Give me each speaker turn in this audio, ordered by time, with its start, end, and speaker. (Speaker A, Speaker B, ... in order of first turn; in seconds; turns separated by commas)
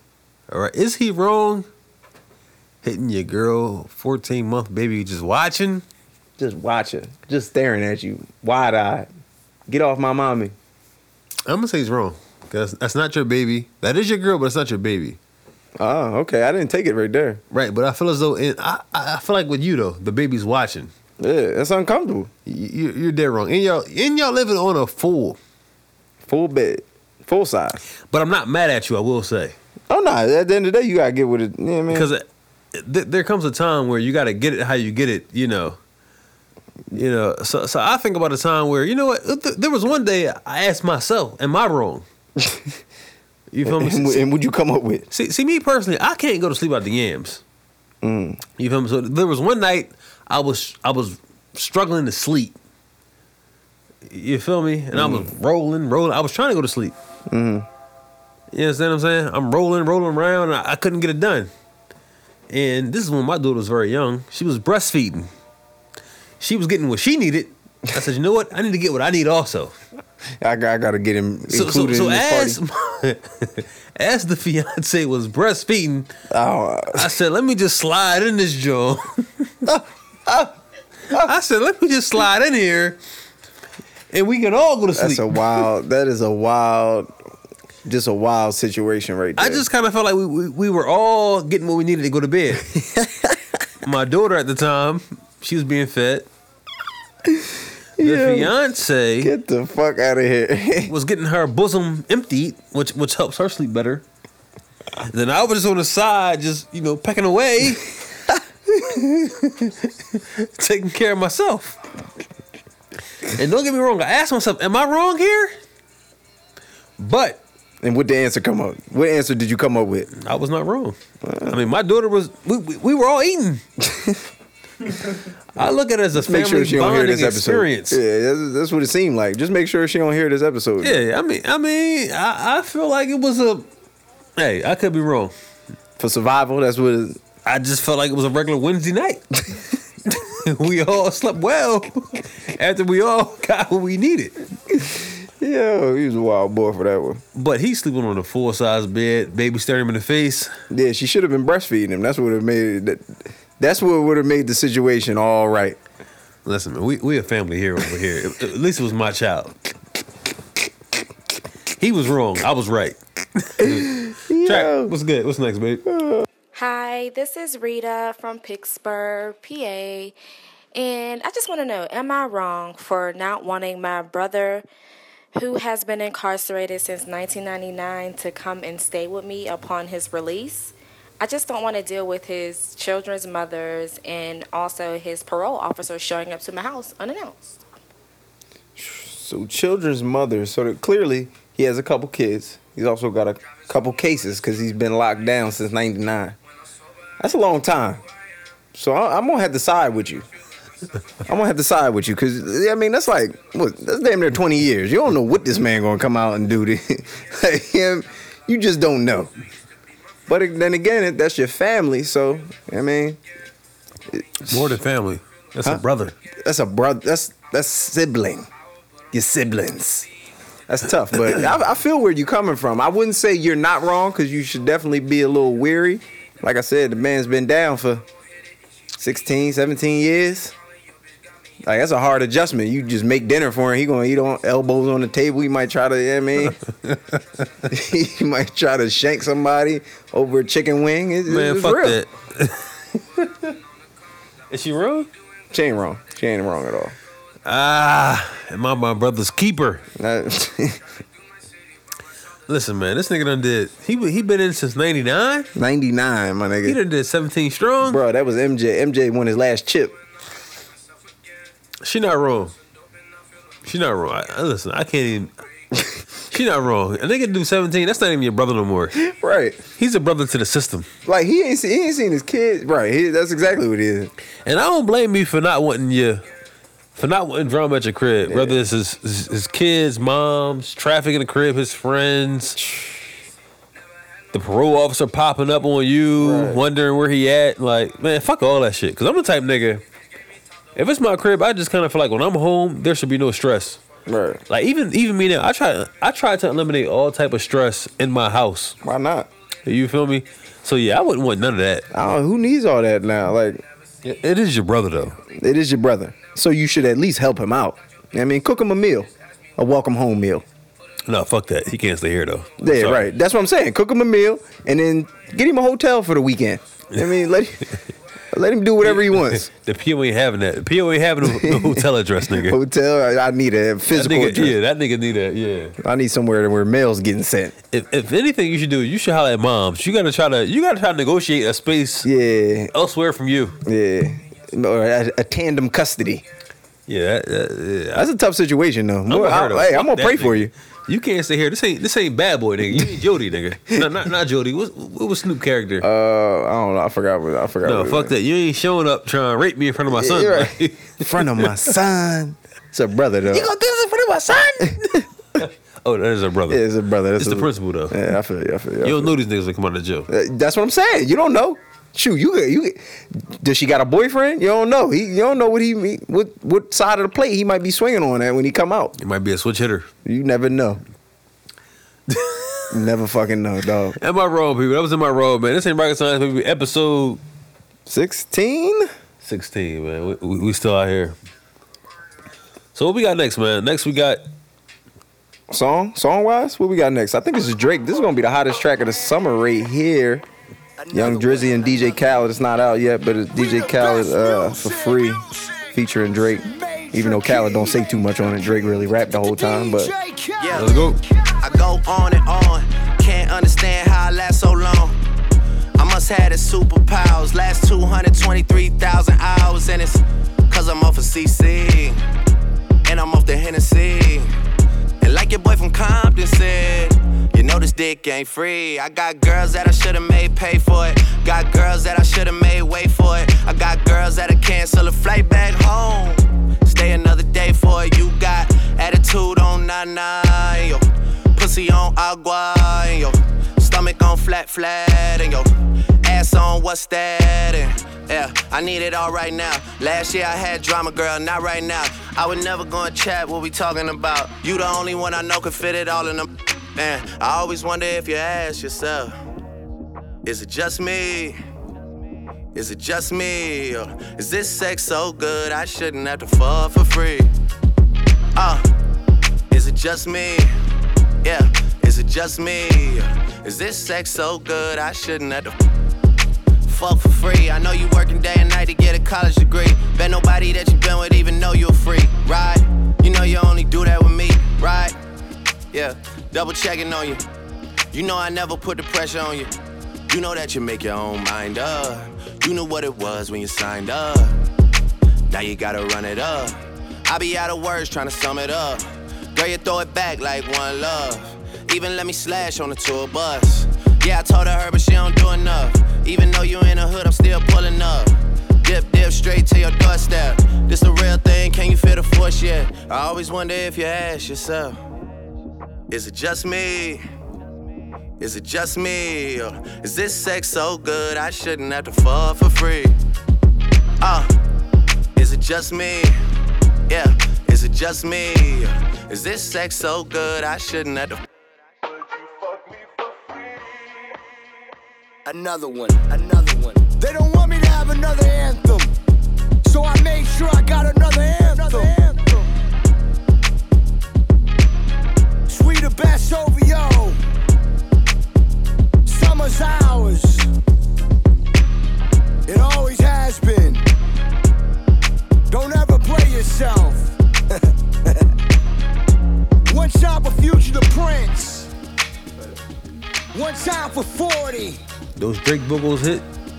Speaker A: 0.5-1.7, Speaker A: 2.8-5.8, Speaker B: 6.4-9.1, Speaker B: 9.7-10.6, Speaker A: 11.5-15.2, Speaker B: 15.8-17.4, Speaker A: 17.5-20.9, Speaker B: 21.2-22.3, Speaker A: 22.5-25.4, Speaker B: 26.3-27.8, Speaker A: 28.1-29.6, Speaker B: 29.9-32.1, Speaker A: 31.9-35.8, Speaker A: 36.9-42.1, Speaker B: 42.4-42.7, Speaker A: 43.5-44.2, Speaker B: 43.6-45.1, Speaker A: 45.1-47.4, Speaker B: 48.0-48.4, Speaker A: 48.6-52.6, Speaker A: 54.1-57.0, Speaker B: 54.9-55.3, Speaker B: 57.3-57.7, Speaker A: 58.5-61.5, Speaker A: 62.5-65.3, Speaker A: 66.4-69.8, Speaker B: 70.4-72.6, Speaker A: 71.5-76.1, Speaker B: 76.3-77.1, Speaker A: 76.9-79.1, Speaker B: 79.7-80.5, Speaker A: 81.1-83.0, Speaker A: 84.1-85.6, Speaker B: 85.0-87.1, Speaker B: 87.9-89.7, Speaker A: 89.4-92.7, Speaker B: 92.7-93.4, Speaker A: 93.8-96.3, Speaker B: 97.3-98.5, Speaker A: 98.0-99.3, Speaker B: 99.2-100.9, Speaker A: 100.9-104.0, Speaker A: 105.1-107.9, Speaker B: 108.7-109.3, Speaker A: 109.2-111.8, Speaker A: 113.3-115.5, Speaker A: 117.0-117.4, Speaker B: 117.8-120.1, Speaker A: 120.1-123.6, Speaker B: 121.2-121.6, Speaker B: 123.8-124.2, Speaker A: 125.6-128.0, Speaker B: 126.2-131.0, Speaker A: 130.8-133.7, Speaker A: 134.4-135.3, Speaker B: 136.0-137.2, Speaker A: 137.4-139.4, Speaker A: 140.1-144.4, Speaker B: 144.7-147.2, Speaker A: 147.3-150.5, Speaker B: 150.7-155.8, Speaker A: 156.4-159.6, Speaker A: 161.8-165.8, Speaker B: 163.6-164.9, Speaker B: 165.9-166.3, Speaker C: 166.5-170.2, Speaker C: 170.8-174.7, Speaker C: 175.3-187.6, Speaker B: 188.8-196.4, Speaker B: 197.2-198.0, Speaker B: 198.7-200.3, Speaker B: 201.3-209.3, Speaker B: 210.3-213.2, Speaker B: 214.1-214.8, Speaker A: 214.4-216.2, Speaker B: 216.4-218.5, Speaker B: 219.1-220.1, Speaker B: 220.7-228.1, Speaker B: 228.9-230.6, Speaker B: 231.6-236.6, Speaker A: 236.8-237.2, Speaker B: 237.7-242.0, Speaker A: 241.3-243.5, Speaker A: 244.5-245.1, Speaker B: 245.5-246.9, Speaker A: 247.4-249.8, Speaker B: 250.0-250.8, Speaker A: 252.5-255.5, Speaker B: 255.6-256.8, Speaker A: 256.6-258.0, Speaker B: 257.8-260.0, Speaker A: 261.8-262.6, Speaker A: 263.6-265.3, Speaker A: 266.3-269.0, Speaker B: 268.9-269.6, Speaker A: 269.8-270.9, Speaker B: 271.1-274.1, Speaker A: 274.5-276.2, Speaker A: 276.9-282.6, Speaker B: 278.3-278.6, Speaker B: 282.6-283.0, Speaker A: 284.3-289.8, Speaker B: 286.2-286.6, Speaker A: 290.8-293.8, Speaker B: 294.1-294.4, Speaker A: 294.5-298.8, Speaker B: 298.8-299.3, Speaker A: 299.7-301.9, Speaker B: 301.9-303.6, Speaker A: 304.0-305.2, Speaker B: 305.3-310.4, Speaker A: 311.1-313.1, Speaker B: 312.6-317.7, Speaker B: 318.3-319.5, Speaker A: 318.8-322.6, Speaker B: 321.2-324.6, Speaker A: 323.9-325.8, Speaker B: 325.8-327.5, Speaker A: 327.7-332.1, Speaker B: 332.0-332.7, Speaker A: 332.7-333.6, Speaker B: 333.6-336.2, Speaker A: 336.9-338.1, Speaker B: 337.9-340.5, Speaker A: 339.1-345.9, Speaker B: 345.8-348.1, Speaker A: 347.6-351.6, Speaker B: 349.9-353.5, Speaker A: 353.3-356.6, Speaker B: 354.6-355.0, Speaker B: 356.5-359.2, Speaker A: 357.2-358.0, Speaker A: 358.8-360.1, Speaker B: 360.1-368.9, Speaker A: 369.0-369.9, Speaker B: 370.1-370.8, Speaker A: 372.1-372.7, Speaker B: 372.7-374.0, Speaker A: 374.0-377.2, Speaker B: 377.9-378.9, Speaker A: 379.2-381.1, Speaker A: 382.7-384.2, Speaker B: 385.5-390.2, Speaker D: 390.8-392.3, Speaker B: 390.9-399.9, Speaker D: 393.3-398.0, Speaker D: 399.1-401.4, Speaker E: 400.4-400.8, Speaker A: 400.5-401.0, Speaker E: 401.4-405.0, Speaker E: 405.8-412.0, Speaker E: 412.9-414.3, Speaker E: 415.0-435.5, Speaker E: 436.0-449.1, Speaker E: 450.2-451.4, Speaker E: 452.6-457.3, Speaker E: 458.4-458.7, Speaker E: 459.5-460.5, Speaker E: 461.2-465.5, Speaker E: 466.6-474.9, Speaker E: 475.7-477.2, Speaker E: 477.9-479.5, Speaker E: 480.1-484.4, Speaker E: 485.3-504.8, Speaker E: 505.9-507.0, Speaker E: 508.2-512.9, Speaker E: 514.0-514.3, Speaker E: 515.2-516.2, Speaker E: 516.9-521.2, Speaker D: 525.3-528.9, Speaker D: 529.6-532.5, Speaker D: 535.5-537.2, Speaker D: 539.1-540.5, Speaker D: 542.5-543.8, Speaker D: 545.5-547.1, Speaker D: 549.7-551.7, Speaker D: 553.3-554.8, Speaker A: 555.2-556.3